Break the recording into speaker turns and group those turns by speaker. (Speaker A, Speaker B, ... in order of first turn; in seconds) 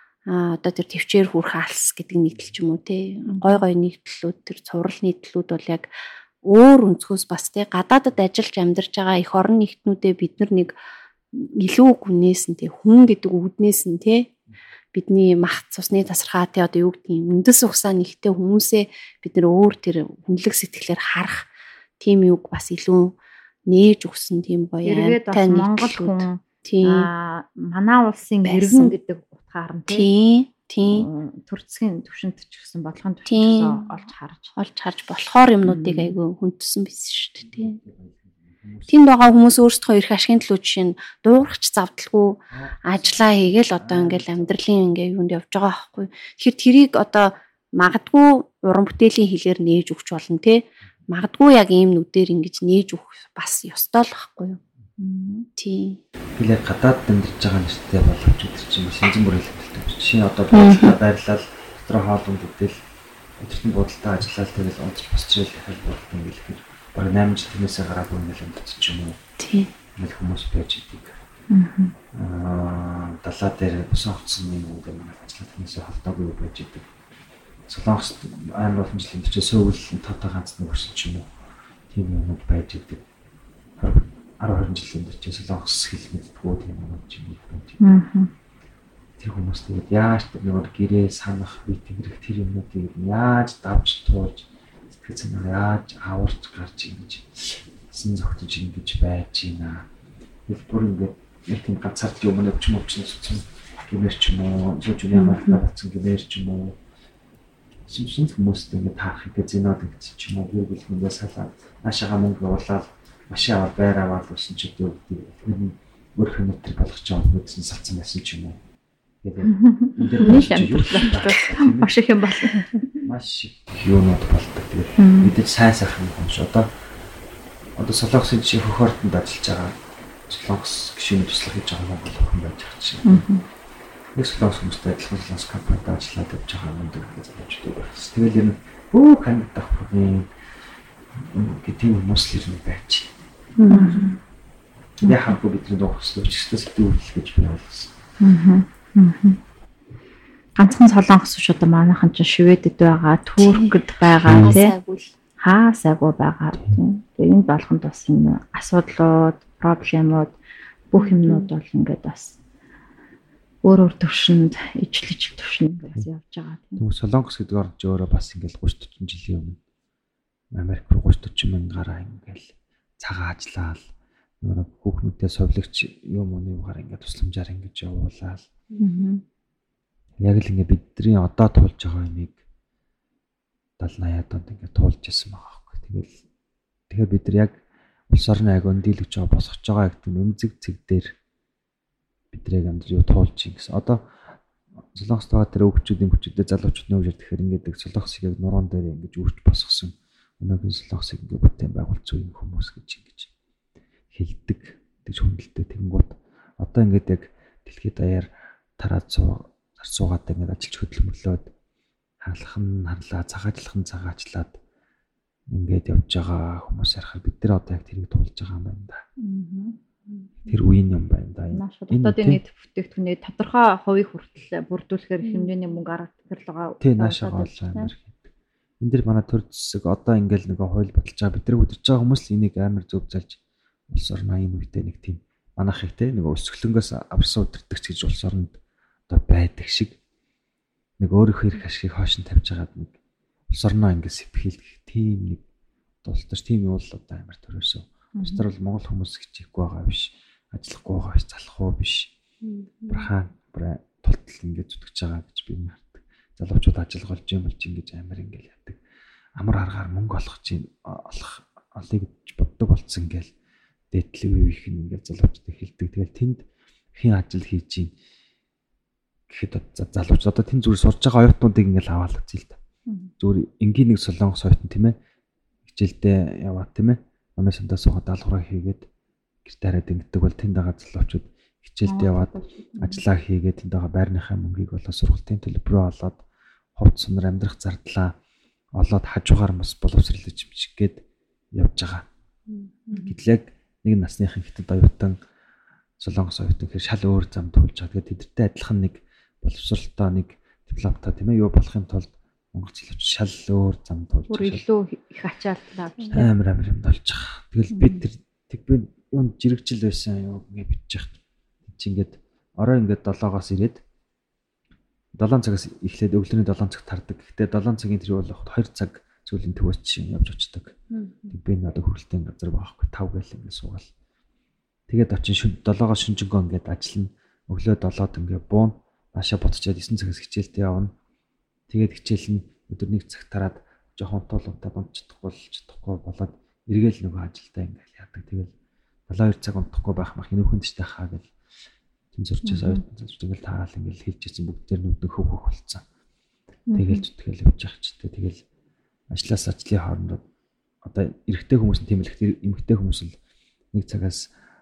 Speaker A: 0.3-5.9, 6.4-10.7, 11.3-14.3, 14.9-21.5, 22.0-27.1, 28.4-28.9, 29.9-31.1, 33.3-33.9, 34.6-37.8, 38.9-54.6, 55.6-56.0, 60.5-60.9, 69.4-69.7, 105.1-105.6, 143.6-144.1, 153.4-155.1, 160.9-161.5, 220.1-220.5, 225.2-225.5, 252.4-253.1, 292.5-293.0, 320.9-321.4
Speaker B: 3.3-3.6, 24.8-30.1, 30.9-34.5, 35.6-36.1, 55.0-55.5, 71.5-71.9, 87.8-88.3, 119.4-122.7, 125.0-125.3, 133.0-133.4, 143.7-144.2, 148.2-149.4, 150.6-154.7, 155.4-160.3, 160.9-162.4, 163.6-166.8, 178.8-179.2, 219.2-219.8, 221.5-227.9, 248.2-248.4, 281.8-283.0, 304.3-306.3, 307.7-308.0, 342.4-342.8, 346.7-347.0
Speaker C: 37.4-39.0, 42.5-44.6, 56.4-62.8, 63.4-69.2, 69.9-71.2, 72.1-76.9, 77.7-81.3, 81.9-83.0, 83.8-87.8, 89.2-99.9, 100.5-106.8, 107.9-118.6, 119.2-122.0, 123.0-126.7, 127.8-133.2, 134.1-140.3, 141.1-143.1, 145.0-147.9, 154.2-154.6, 166.8-169.6, 170.5-173.9, 174.4-178.5, 180.2-182.4, 183.8-186.2, 186.9-187.5, 188.1-191.1, 192.3-194.1, 194.9-203.3, 204.1-211.5, 212.2-214.6, 215.5-219.0, 220.4-222.4, 226.8-228.3, 228.8-233.4, 233.9-238.6, 239.1-239.9, 241.0-242.9, 243.5-245.4, 246.0-252.1, 252.9-258.8, 259.4-263.3, 263.9-266.4, 266.9-267.9, 269.3-272.6, 273.2-274.9, 275.6-278.9, 279.4-286.2, 286.8-288.1, 288.8-291.0, 291.6-292.0, 292.9-295.1, 296.0-304.6, 306.1-313.8, 315.1-320.7, 321.3-323.9, 324.9-330.9, 331.7-338.5, 339.1-341.3, 342.1-345.8, 346.7-348.4, 349.1-350.2, 350.8-353.1, 353.7-354.3